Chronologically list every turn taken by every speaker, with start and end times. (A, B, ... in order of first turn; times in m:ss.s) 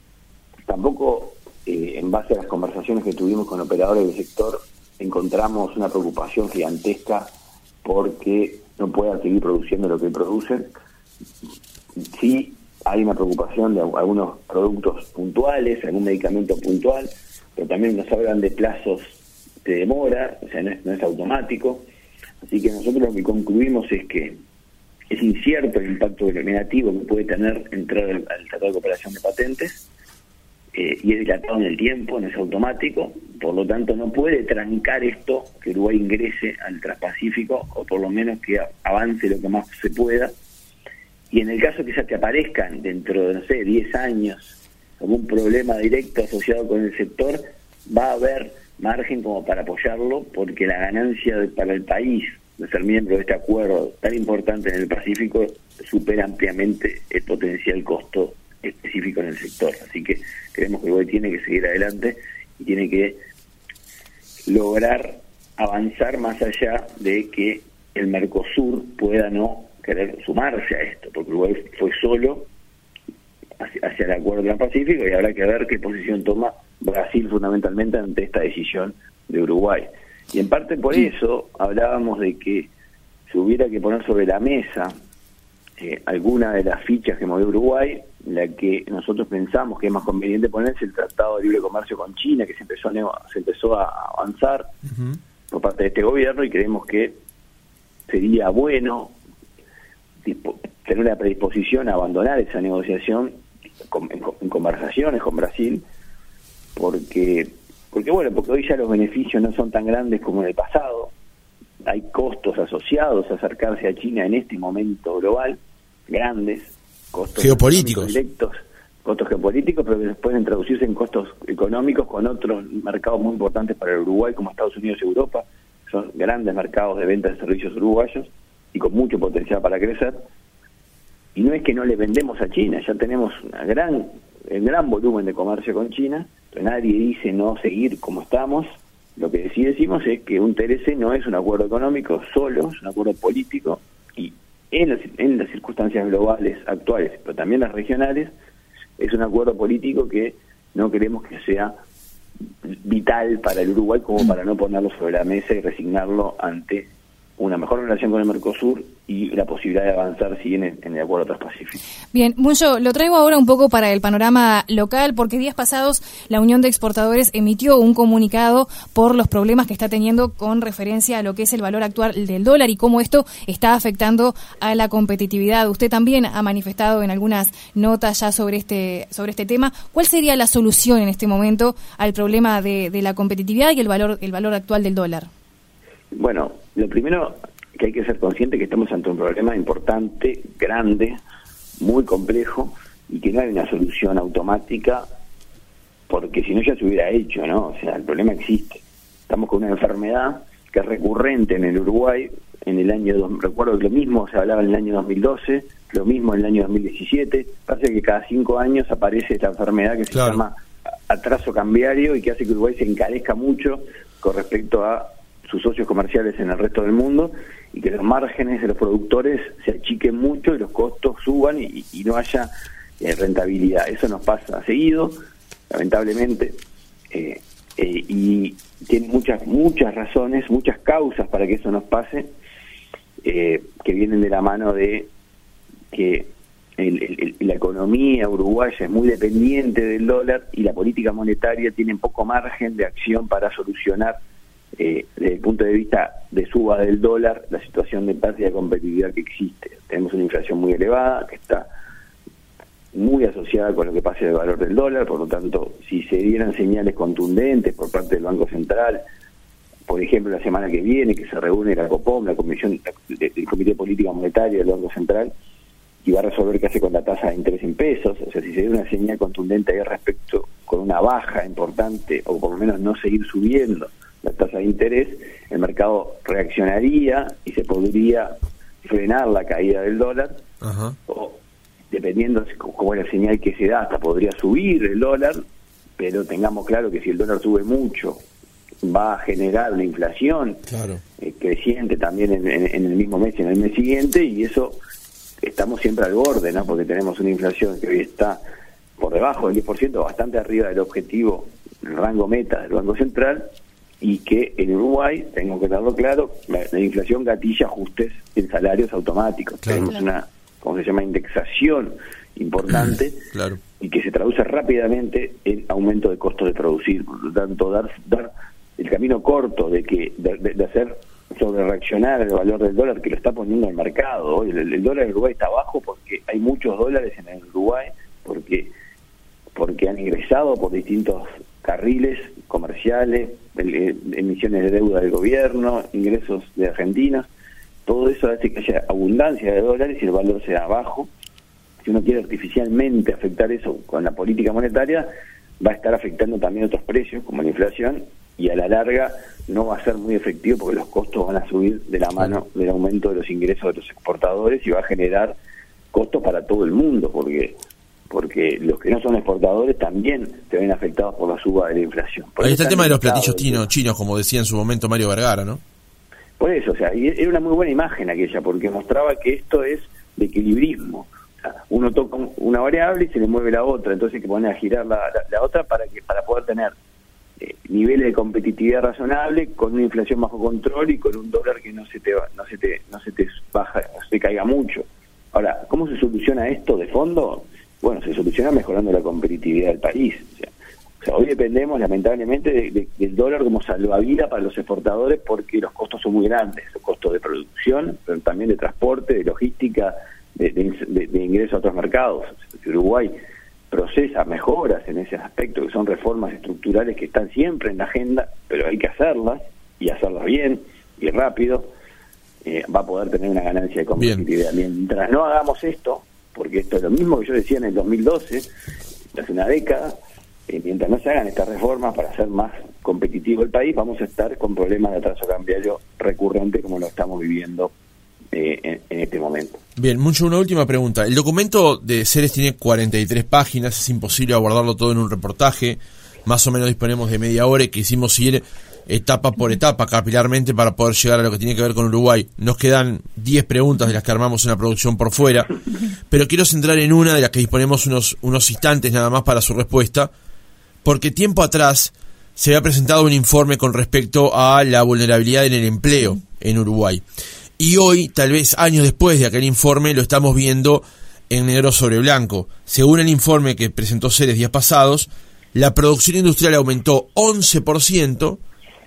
0:00.7-0:07.3 A
0:07.8-0:10.8 A
0:12.1-0:21.9 A
0:22.4-0:24.4 A
0:25.1-0:29.8 A
0:30.7-0:40.3 A
0:41.3-1:03.2 A
1:04.5-1:12.5 A
1:13.6-1:22.7 A
1:23.3-1:25.0 A
1:25.8-1:34.7 A
1:35.5-1:37.2 A
1:38.1-1:39.2 A
1:40.2-1:45.8 A
1:46.8-1:51.1 A
1:51.8-2:10.2 A
1:57.4-1:58.1 B
2:11.4-2:28.3 A
2:29.0-2:31.7 A
2:32.6-2:41.8 A
2:42.1-3:05.3 C
3:06.1-3:11.2 A
3:11.8-3:15.1 A
3:16.1-3:30.5 A
3:30.1-3:30.4 B
3:31.1-3:45.2 A
3:45.7-3:46.6 A
3:47.1-3:52.3 A
3:53.2-3:55.1 A
3:55.9-4:04.2 A
4:04.8-4:11.7 A
4:12.9-4:19.0 A
4:19.9-4:25.3 A
4:26.0-4:40.4 A
4:40.6-4:41.0 B
4:41.1-4:45.4 A
4:46.0-4:48.2 A
4:48.8-4:50.6 A
4:50.7-4:51.0 B
4:51.2-4:54.8 A
4:55.4-4:58.4 A
4:59.0-5:03.5 A
5:04.0-5:13.2 A
5:13.3-5:13.6 B
5:13.8-5:28.7 A
5:29.6-5:37.3 A
5:37.9-5:41.1 A
5:41.8-5:55.4 A
5:55.9-5:57.6 A
5:58.1-6:03.7 A
6:02.4-6:05.6 B
6:06.4-6:11.1 A
6:11.7-6:16.8 A
6:17.4-6:30.5 A
6:31.0-6:43.1 A
6:43.7-6:51.7 A
6:52.4-6:58.5 A
6:54.0-6:54.2 B
6:59.1-7:00.0 A
7:00.5-7:07.7 A
7:08.3-7:09.6 A
7:09.8-7:25.5 B
7:26.1-7:30.1 B
7:30.8-7:37.0 B
7:37.6-7:48.4 B